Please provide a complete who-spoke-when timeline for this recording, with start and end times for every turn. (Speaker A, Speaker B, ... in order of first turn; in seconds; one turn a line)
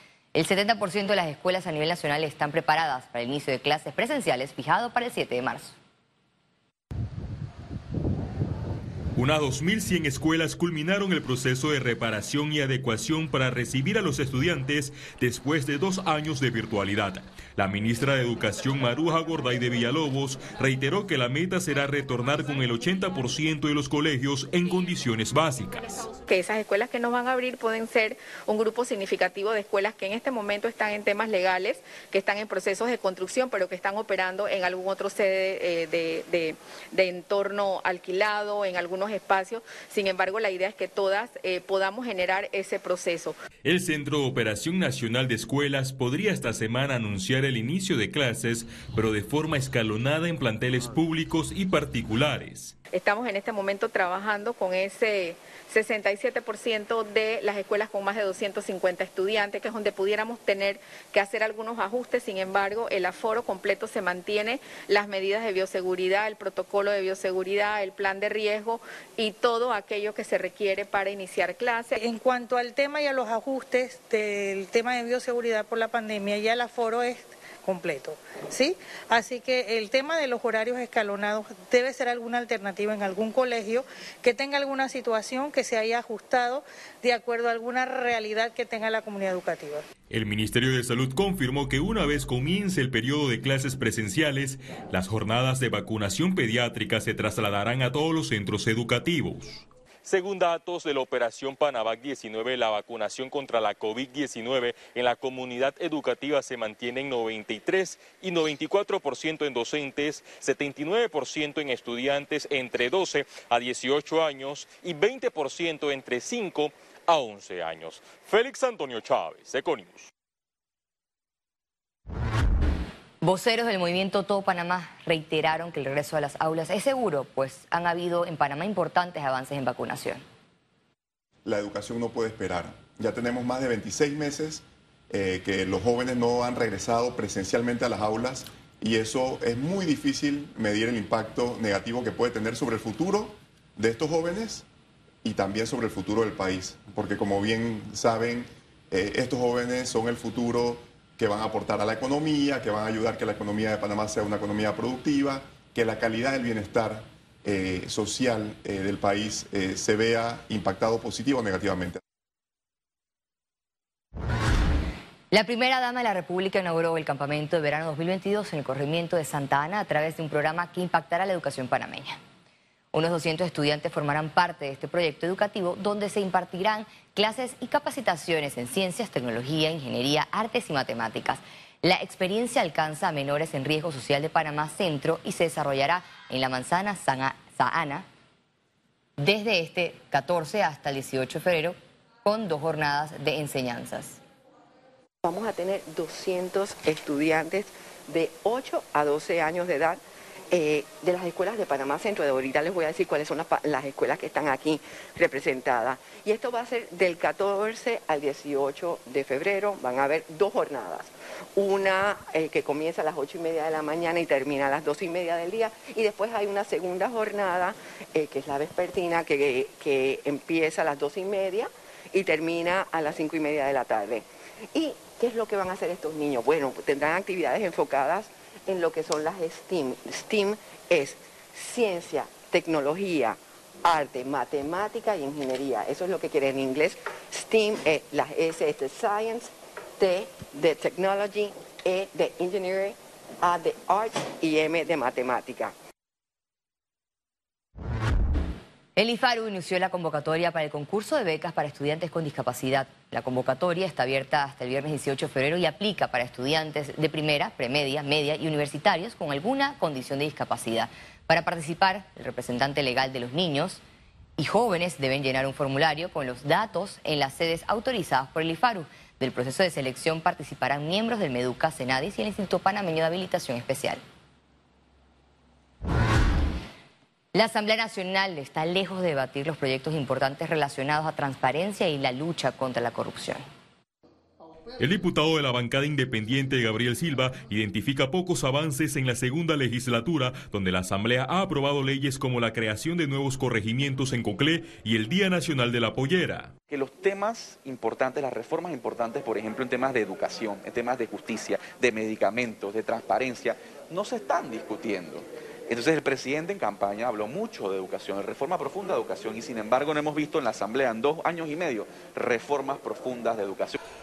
Speaker A: 0.3-5.8
Speaker B: 9.2-25.9
Speaker C: 26.3-43.3
Speaker B: 43.6-52.7
Speaker C: 52.9-72.0
Speaker D: 72.0-89.8
Speaker B: 90.1-119.9
Speaker A: 123.2-130.2
Speaker E: 131.4-144.6
Speaker E: 145.2-162.0
Speaker A: 165.3-172.2
Speaker A: 172.9-188.0
Speaker A: 189.2-194.2
Speaker F: 195.2-245.7
Speaker A: 248.9-263.8
Speaker A: 264.4-274.0
Speaker A: 277.3-283.4
Speaker B: 284.8-296.5
Speaker G: 296.7-313.8